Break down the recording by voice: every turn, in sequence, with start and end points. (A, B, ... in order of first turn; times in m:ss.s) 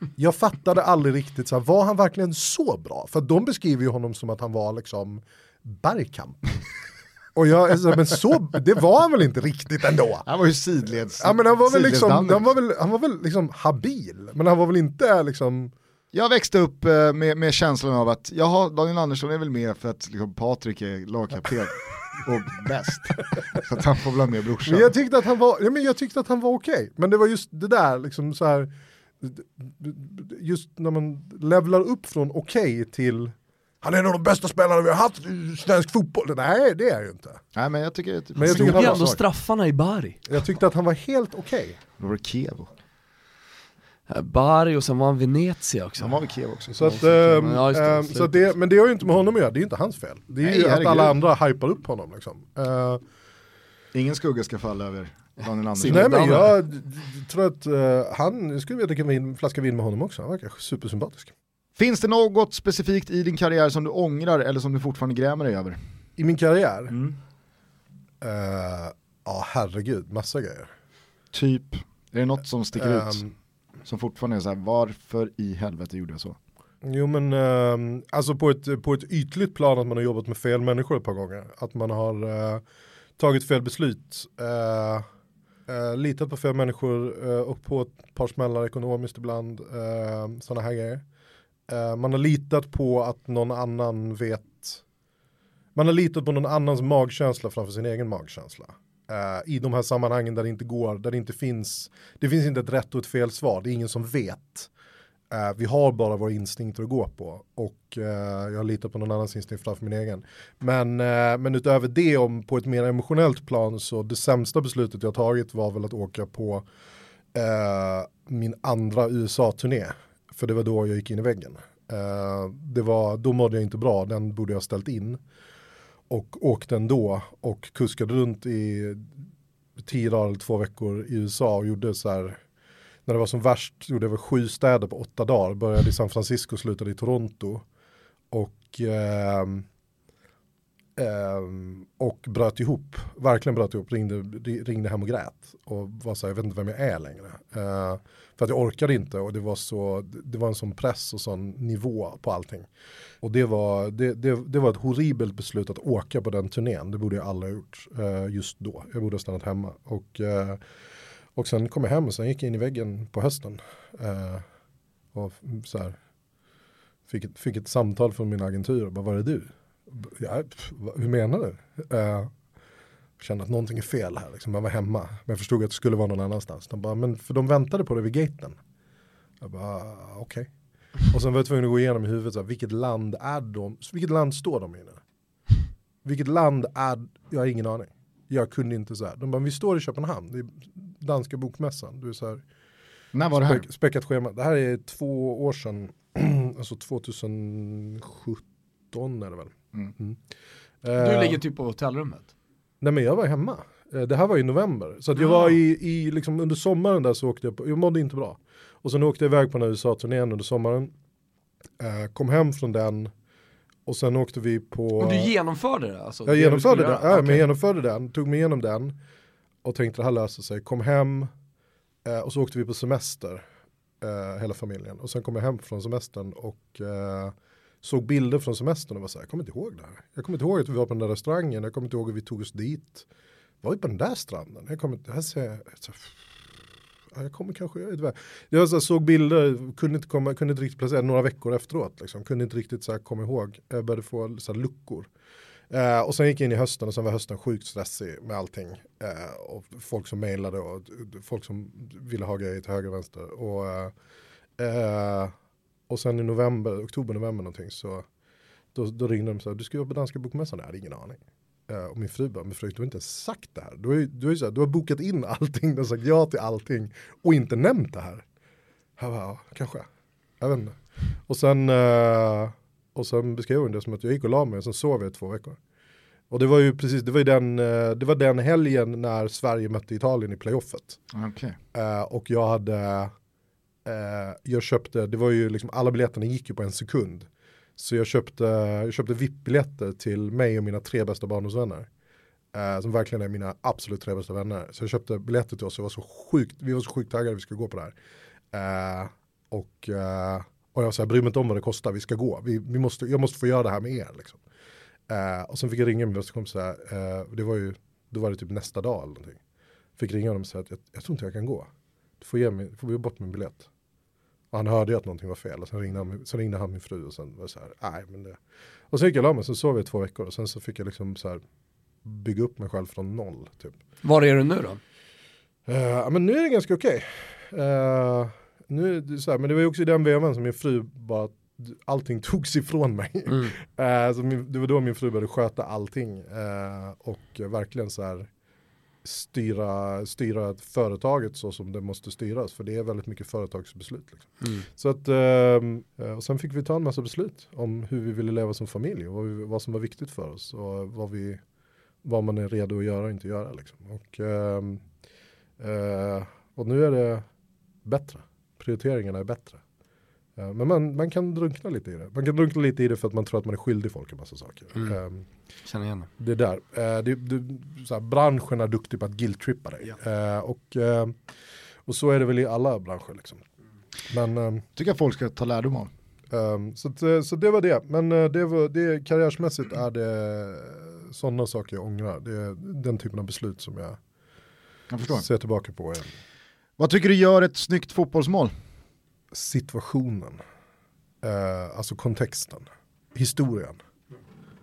0:00.2-0:06.6 A
0:07.4-0:10.3 A
0:10.3-0:12.5 B
0:11.2-0:15.7 A
0:16.1-0:24.9 B
0:24.6-0:37.4 A
0:37.6-0:39.2 B
0:38.4-0:39.1 A
0:38.4-0:40.2 C
0:40.3-0:41.8 A
0:42.0-0:42.7 B
0:44.1-0:46.2 C
0:46.0-0:47.0 B
0:46.7-0:53.0 A
0:46.8-0:48.5 C
0:50.4-0:51.2 B
0:53.9-0:56.1 B
0:55.7-0:56.6 C
0:55.8-1:01.3 A
1:01.8-1:05.8 B
1:06.2-1:07.0 A
1:06.9-1:07.2 B
1:08.2-1:10.7 A
1:11.3-1:13.2 B
1:12.8-1:13.3 A
1:13.8-1:16.4 B
1:16.8-1:22.6 A
1:23.2-1:25.1 A
1:25.7-1:31.0 A
1:31.7-1:34.8 A
1:35.8-1:44.7 A
1:45.3-1:56.6 A
1:57.3-2:05.2 A
2:06.1-2:09.1 A
2:09.8-2:12.4 A
2:13.1-2:17.6 A
2:18.3-2:19.7 A
2:21.0-2:32.7 A
2:33.2-2:40.6 A
2:41.4-2:44.4 A
2:45.1-2:46.0 A
2:47.1-2:52.3 A
2:53.2-2:58.6 A
2:59.4-3:00.5 A
3:01.1-3:05.0 A
3:06.0-3:12.4 A
3:13.1-3:13.6 B
3:13.3-3:20.2 A
3:20.8-3:21.4 A
3:21.0-3:22.3 C
3:22.8-3:30.9 A
3:25.2-3:25.6 C
3:31.8-3:33.1 A
3:33.9-3:35.3 A
3:35.0-3:37.5 C
3:36.3-3:39.0 A
3:39.6-3:41.3 A
3:42.0-3:43.4 A
3:44.0-3:53.1 A
3:53.6-3:56.2 A
3:57.1-4:05.1 A
4:05.7-4:13.9 A
4:14.6-4:15.3 A
4:15.9-4:18.0 A
4:18.7-4:28.2 A
4:29.0-4:29.9 A
4:30.4-4:35.6 A
4:36.3-4:41.0 A
4:41.1-4:41.6 B
4:41.7-4:43.1 A
4:43.8-4:51.9 A
4:52.5-4:58.0 A
4:58.5-5:04.4 A
5:05.1-5:09.4 A
5:10.0-5:11.7 A
5:12.2-5:13.7 A
5:14.5-5:18.4 A
5:18.9-5:21.4 A
5:22.0-5:23.8 A
5:24.0-5:24.8 C
5:25.7-5:38.3 A
5:33.3-5:33.5 C
5:39.0-5:51.4 A
5:44.4-5:44.7 C
5:52.0-5:54.8 A
5:55.6-5:57.3 A
5:57.8-5:59.6 A
6:00.4-6:05.3 A
6:05.7-6:06.1 C
6:06.2-6:11.2 A
6:11.9-6:13.4 A
6:14.1-6:14.7 A
6:14.8-6:15.9 B
6:16.3-6:24.0 A
6:24.9-6:25.3 B
6:25.0-6:26.1 A
6:26.8-6:28.5 B
6:29.3-6:30.4 A
6:31.2-6:33.8 A